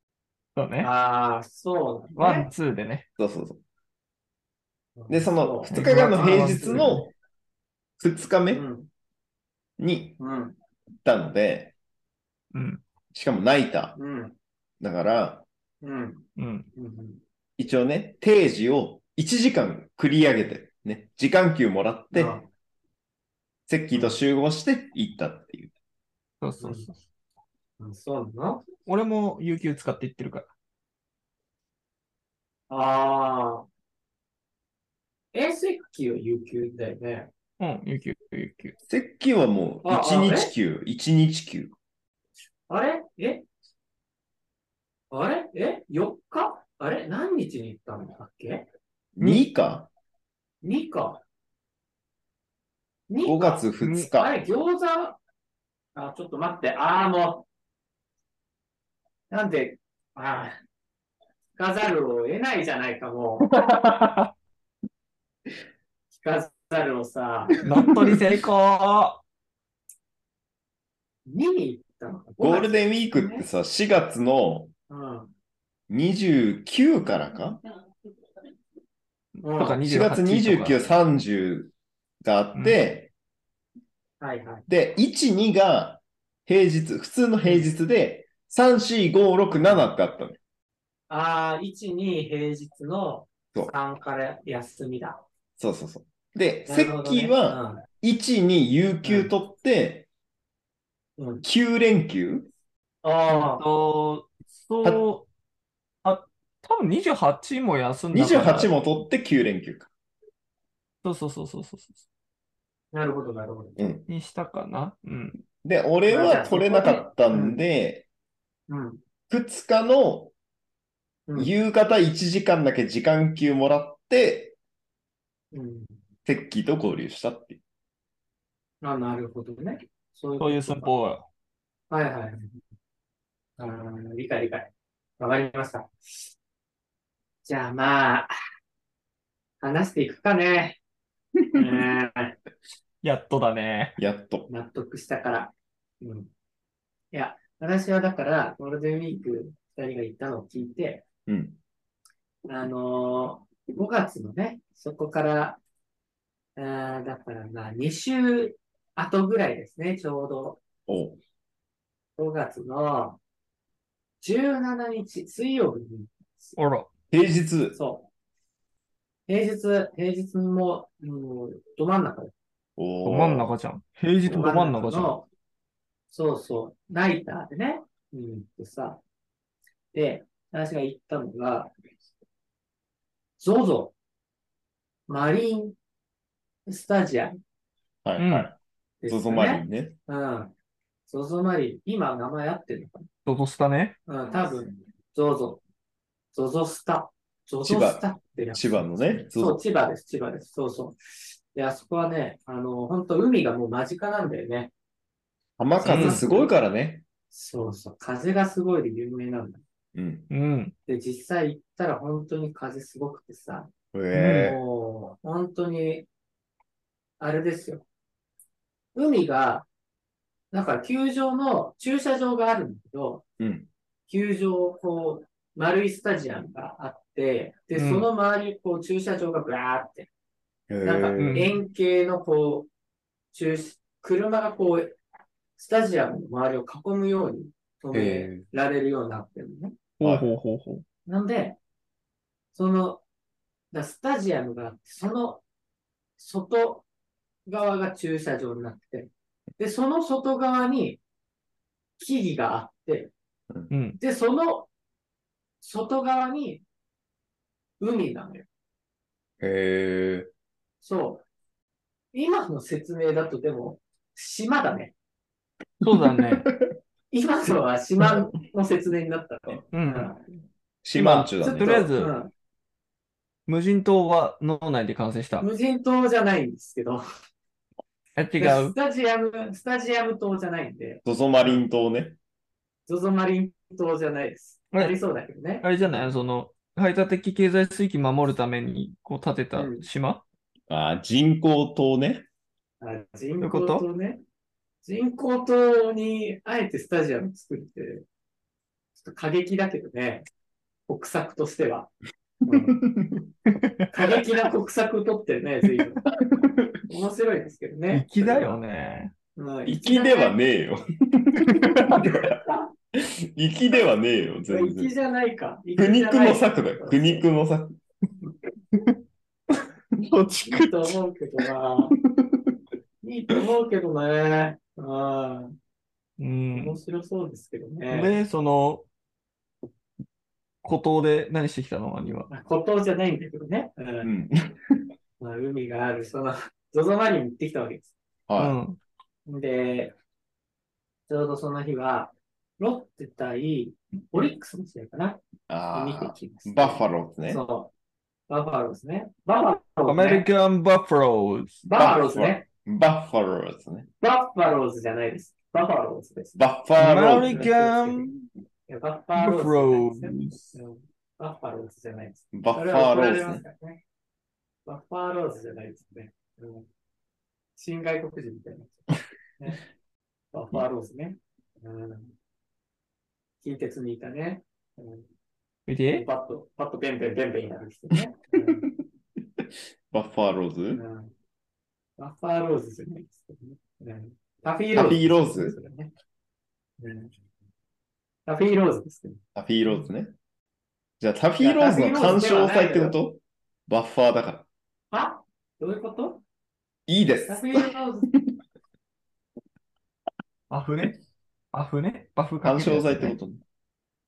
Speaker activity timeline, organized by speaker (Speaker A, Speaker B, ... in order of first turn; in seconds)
Speaker A: 0.6-0.9, 2.2-3.0, 5.7-7.0, 12.5-12.8, 16.4-16.7, 26.4-27.0, 28.9-30.5, 37.6-38.7, 49.2-49.5, 53.8-54.1, 63.5-64.3, 67.6-69.2, 79.4-80.9, 103.3-105.2, 106.0-108.7, 111.0-112.0, 114.1-115.4, 130.4-131.2, 143.0-144.0, 166.6-166.9, 173.0-175.2, 188.2-188.5, 193.2-194.0, 205.8-206.2, 210.3-210.7, 214.1-214.5, 227.8-228.1, 231.2-231.6, 240.0-240.8, 253.7-254.0, 265.8-266.5, 269.7-270.1, 271.0-272.1, 273.5-275.5, 278.1-278.8, 285.6-290.2, 293.4-293.8, 303.5-303.9, 307.9-309.1, 311.5-312.1, 320.0-321.0, 326.2-326.8, 327.9-328.8, 330.6-332.3, 338.4-338.8, 349.8-351.6, 356.8-358.2, 359.2-360.5, 375.7-376.1, 400.5-400.9, 401.5-403.1
Speaker B: 0.8-2.5, 5.0-7.0, 8.5-8.9, 10.2-10.6, 13.9-14.3, 15.8-17.2, 22.1-22.5, 26.6-26.9, 27.8-28.7, 32.7-33.6, 35.3-37.3, 39.8-40.5, 42.7-43.4, 45.1-48.7, 50.6-51.2, 53.1-55.2, 55.9-57.5, 59.3-60.6, 61.6-63.5, 66.1-67.6, 71.2-73.5, 74.9-75.3, 79.4-79.8, 84.2-84.6, 89.5-89.9, 91.1-95.2, 96.7-97.8, 99.0-99.3, 101.2-101.4, 103.0-103.6, 112.9-113.8, 116.1-117.6, 118.7-119.0, 125.5-126.0, 128.8-130.9, 131.9-132.6, 133.6-136.2, 137.4-138.3, 139.6-140.8, 141.5-142.4, 144.5-146.3, 147.1-151.1, 152.5-155.6, 156.6-160.6, 162.2-163.2, 164.2-166.5, 167.7-168.1, 169.3-172.3, 174.2-175.2, 176.1-179.0, 179.9-181.7, 183.4-183.9, 185.1-185.8, 186.7-187.4, 189.0-190.5, 191.1-193.1, 194.1-195.6, 196.3-204.7, 205.8-206.5, 207.3-209.6, 210.9-213.7, 214.4-216.1, 217.2-217.8, 218.9-219.7, 220.5-223.2, 224.1-230.1, 230.8-232.7, 233.3-234.9, 235.6-239.7, 241.1-241.6, 242.5-243.0, 243.7-245.4, 246.2-246.8, 247.4-251.0, 252.0-253.1, 254.0-254.7, 255.6-256.6, 257.8-258.4, 260.8-261.2, 262.1-264.9, 267.1-270.2, 270.9-272.3, 275.4-277.0, 278.4-281.6, 282.9-286.0, 289.6-289.8, 292.8-294.2, 294.8-298.1, 298.9-300.2, 300.9-301.9, 302.4-302.8, 303.9-308.6, 309.4-310.3, 314.5-317.2, 320.5-321.9, 323.0-325.6, 326.5-328.1, 332.3-334.1, 335.2-337.9, 339.2-339.9, 341.1-347.7, 348.3-350.2, 351.7-352.4, 354.0-356.4, 357.2-358.1, 358.7-363.8, 364.6-366.7, 367.6-368.8, 370.3-372.1, 373.4-375.1, 375.9-378.7, 380.7-381.1, 382.0-385.9, 386.8-387.1, 388.2-389.8, 391.4-392.9, 394.9-396.2, 397.2-398.1
Speaker C: 3.2-3.6, 5.1-7.1, 8.0-8.6, 9.8-10.2, 11.0-11.7, 13.1-14.0, 14.8-15.4, 17.6-22.4, 23.7-25.7, 38.9-41.7, 49.1-49.9, 53.2-54.4, 67.6-68.2, 72.4-74.7, 75.9-77.6, 79.8-83.1, 84.7-90.4, 95.6-100.0, 101.4-102.5, 108.1-109.9, 113.8-114.0, 115.6-118.0, 119.3-120.3, 121.3-124.5, 126.2-127.6, 141.4-141.8, 144.0-144.5, 151.3-151.6, 160.9-161.2, 167.1-167.8, 172.8-173.5, 188.0-188.6, 189.1-189.9, 197.6-199.6, 205.6-207.0, 209.9-210.3, 213.9-214.6, 223.4-223.7, 230.7-231.5, 237.9-238.4, 240.0-240.3, 259.4-260.3, 265.8-266.6, 270.8-271.9, 281.0-282.2, 290.7-292.2, 302.5-303.2, 306.2-306.7, 309.6-312.4, 312.9-314.9, 315.8-317.7, 334.0-334.8, 338.3-338.6, 345.5-347.4, 351.6-353.9, 356.4-357.5, 362.3-363.4, 379.4-380.8, 384.7-385.6, 389.3-390.1, 391.0-394.5, 396.9-398.1, 402.4-403.4